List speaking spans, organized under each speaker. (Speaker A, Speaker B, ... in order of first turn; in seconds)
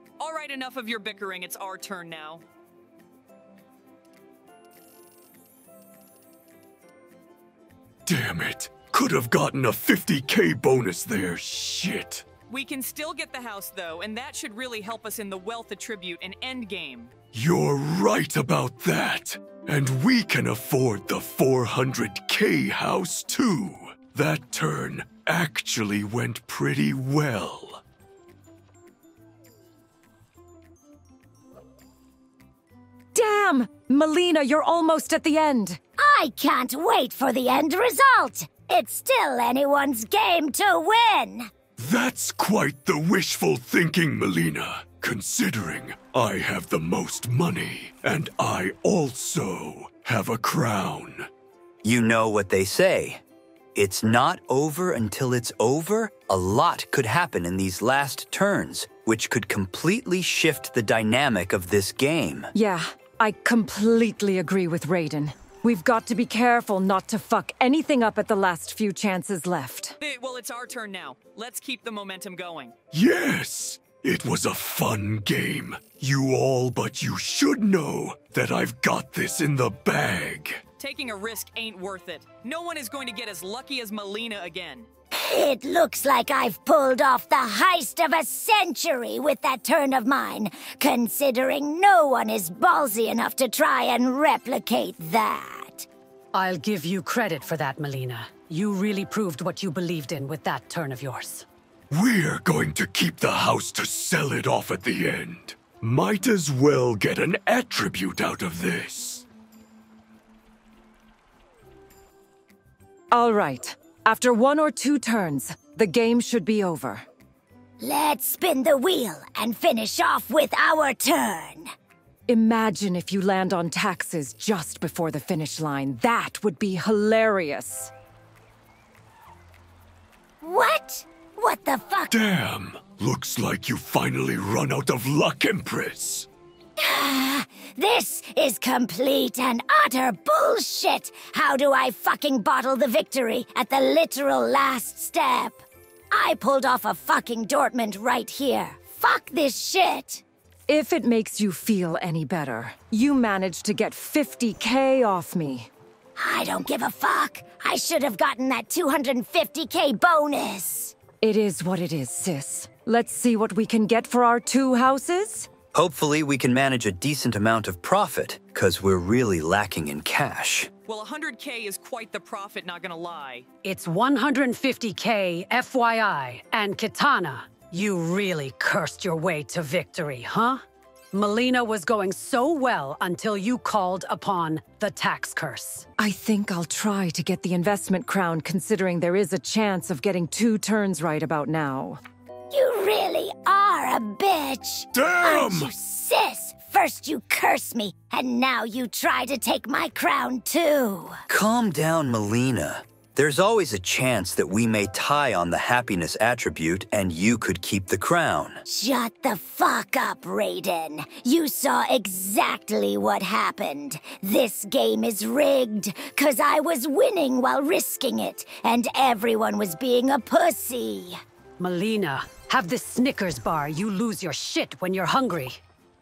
Speaker A: 0.2-2.4, 12.5-17.1, 70.0-72.7, 80.8-84.9, 170.8-173.4
Speaker B: 8.1-12.3, 17.3-27.8, 41.8-51.3, 72.9-80.6, 101.9-109.2, 132.1-136.3, 194.9-195.7
Speaker C: 33.1-35.8, 62.5-70.0, 113.1-117.0, 122.3-127.9, 150.7-155.7, 161.2-165.5, 186.0-192.0
Speaker D: 36.0-41.5, 85.1-95.9, 117.8-121.7, 130.4-132.1, 136.8-150.2, 156.2-160.9, 192.5-201.2, 208.6-221.2
Speaker E: 51.8-53.2, 53.7-62.5, 165.7-170.7, 201.3-208.6
Speaker F: 96.3-101.4, 173.6-180.6, 181.1-185.8, 221.6-225.6